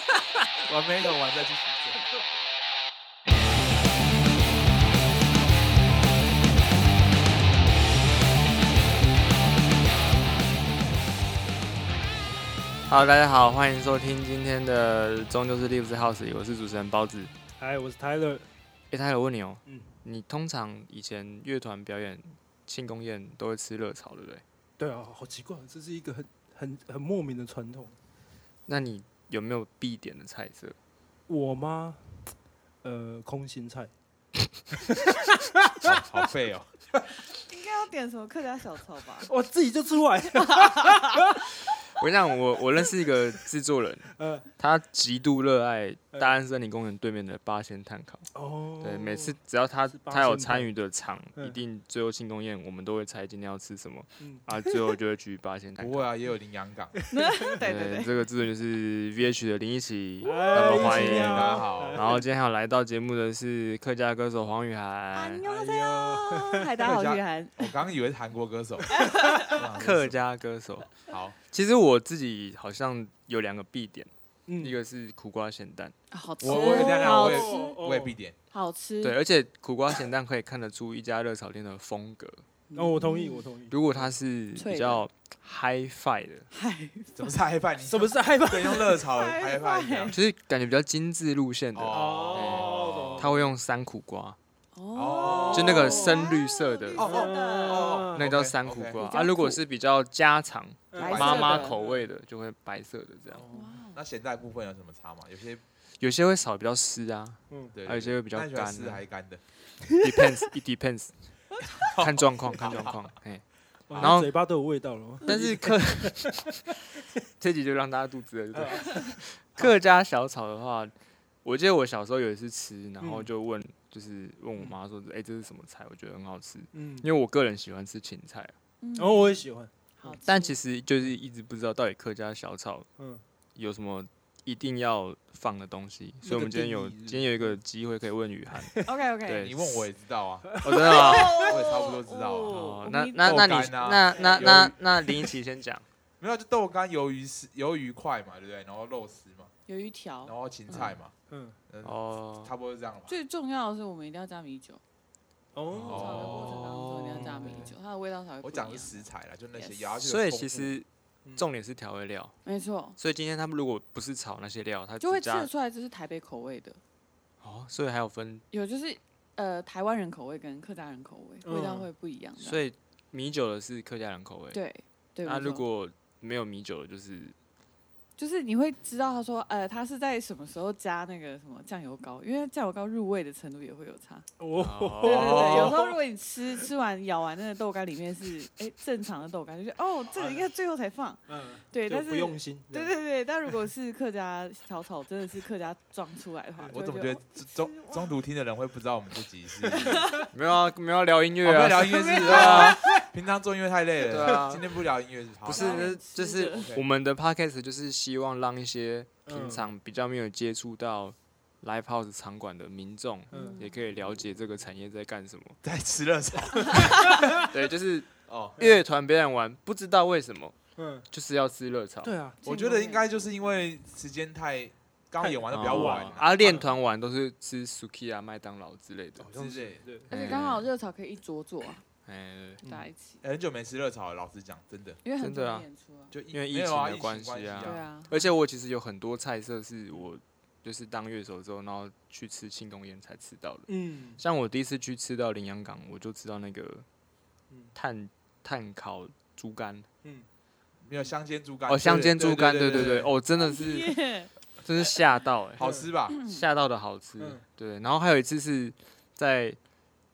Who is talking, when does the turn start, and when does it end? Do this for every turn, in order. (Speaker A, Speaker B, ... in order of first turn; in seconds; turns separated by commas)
Speaker A: 0.6-2.0, Speaker B: 12.9-17.3, Speaker C: 17.6-18.5, Speaker B: 18.9-24.4, Speaker C: 19.7-20.0, Speaker C: 24.8-28.0, Speaker B: 28.7-30.8, Speaker C: 31.3-33.9, Speaker C: 34.8-36.0, Speaker A: 35.8-36.7, Speaker D: 37.5-39.3, Speaker C: 39.2-41.4, Speaker D: 40.4-41.3, Speaker B: 42.0-48.3, Speaker C: 44.1-44.5, Speaker C: 48.3-49.4, Speaker B: 48.8-56.1, Speaker C: 49.9-50.7, Speaker C: 54.2-54.8, Speaker A: 55.8-57.0, Speaker D: 57.1-58.2, Speaker B: 57.6-65.5, Speaker C: 60.2-62.2, Speaker A: 60.5-62.2, Speaker D: 65.1-67.7, Speaker C: 65.4-66.7, Speaker A: 66.8-70.2, Speaker D: 69.0-69.5, Speaker B: 69.6-75.9, Speaker A: 71.1-71.4, Speaker C: 74.5-74.8, Speaker D: 76.1-77.7, Speaker A: 76.4-78.4, Speaker C: 76.5-78.2, Speaker D: 78.5-79.2, Speaker B: 79.0-82.5, Speaker D: 82.7-83.5, Speaker C: 82.8-84.1, Speaker B: 83.7-86.5, Speaker D: 84.6-85.0, Speaker D: 86.5-87.3, Speaker A: 87.2-90.2, Speaker C: 87.8-89.0, Speaker D: 89.0-90.2, Speaker B: 90.1-94.4, Speaker A: 91.8-93.4, Speaker C: 91.9-93.5, Speaker D: 94.8-98.1, Speaker A: 94.9-96.0, Speaker C: 95.2-96.3, Speaker B: 95.5-97.0, Speaker C: 97.0-98.3, Speaker A: 97.0-99.0, Speaker B: 98.2-103.5, Speaker D: 99.0-99.6, Speaker C: 100.9-102.1, Speaker A: 101.0-101.7, Speaker D: 101.0-101.8, Speaker C: 103.3-103.7, Speaker D: 103.5-104.0, Speaker A: 103.9-105.6, Speaker B: 106.0-109.0, Speaker A: 107.7-109.4, Speaker C: 109.9-110.2, Speaker B: 110.0-111.1, Speaker A: 111.8-113.1, Speaker B: 111.8-114.3, Speaker A: 113.9-114.2, Speaker C: 113.9-116.4, Speaker B: 115.2-116.8, Speaker B: 117.3-128.5, Speaker C: 118.5-119.7, Speaker C: 123.0-123.3, Speaker C: 126.7-127.1, Speaker D: 128.8-129.4, Speaker C: 129.0-130.2, Speaker D: 130.0-130.6, Speaker B: 130.2-132.9, Speaker C: 133.0-133.2, Speaker B: 133.6-139.9, Speaker C: 136.2-137.6, Speaker D: 138.8-139.5, Speaker A: 139.4-142.6, Speaker C: 140.5-140.8, Speaker B: 140.6-141.5, Speaker D: 140.7-144.7, Speaker B: 142.5-145.8, Speaker A: 143.2-144.8, Speaker A: 146.2-149.5, Speaker D: 149.7-150.3, Speaker A: 150.2-151.1, Speaker C: 151.3-151.6, Speaker A: 151.7-153.1, Speaker B: 151.8-152.5, Speaker D: 153.1-154.8, Speaker C: 155.5-156.5, Speaker B: 155.8-157.7, Speaker A: 155.8-156.5, Speaker D: 155.9-159.8, Speaker C: 157.2-157.7, Speaker A: 158.4-160.7, Speaker B: 160.0-162.3, Speaker D: 162.4-163.0, Speaker B: 163.0-165.5, Speaker D: 165.0-166.8, Speaker B: 167.4-168.4, Speaker D: 168.5-172.6, Speaker C: 171.4-171.9, Speaker B: 172.4-174.6, Speaker D: 174.5-175.6, Speaker B: 175.2-177.4, Speaker D: 178.2-184.3, Speaker C: 184.4-186.0, Speaker B: 184.6-185.8, Speaker D: 185.0-198.2, Speaker C: 190.1-190.5, Speaker C: 191.3-192.9, Speaker A: 196.7-200.1, Speaker D: 199.7-200.3, Speaker B: 200.3-202.8, Speaker A: 201.4-205.9, Speaker D: 201.9-203.0, Speaker B: 204.0-204.7, Speaker B: 205.4-215.6, Speaker D: 205.5-206.7, Speaker A: 206.5-206.8, Speaker C: 209.3-209.7, Speaker C: 213.3-213.6, Speaker D: 213.3-213.7, Speaker A: 215.6-217.3, Speaker D: 216.7-217.0, Speaker B: 217.2-220.6, Speaker A: 218.3-218.6, Speaker C: 218.6-218.8, Speaker C: 220.8-221.1, Speaker B: 221.1-222.1, Speaker C: 222.0-222.4, Speaker A: 222.4-226.6, Speaker D: 222.4-223.1, Speaker C: 225.2-226.7, Speaker B: 225.5-229.3, Speaker C: 229.2-230.1, Speaker A: 229.3-229.9, Speaker D: 230.1-231.8, Speaker B: 230.1-230.7, Speaker B: 232.1-232.6, Speaker C: 232.6-232.9, Speaker D: 232.7-233.2, Speaker A: 233.2-235.0, Speaker D: 235.0-236.1, Speaker B: 235.2-235.7, Speaker A: 236.1-237.9, Speaker B: 236.3-246.9, Speaker D: 237.6-238.3, Speaker C: 243.7-244.2, Speaker B: 247.7-249.9, Speaker A: 250.8-253.1, Speaker B: 251.7-254.1, Speaker C: 251.8-253.1, Speaker D: 253.3-254.3, Speaker B: 254.6-259.6, Speaker A: 255.6-256.2, Speaker C: 255.6-255.9, Speaker D: 256.1-256.4, Speaker C: 257.2-257.4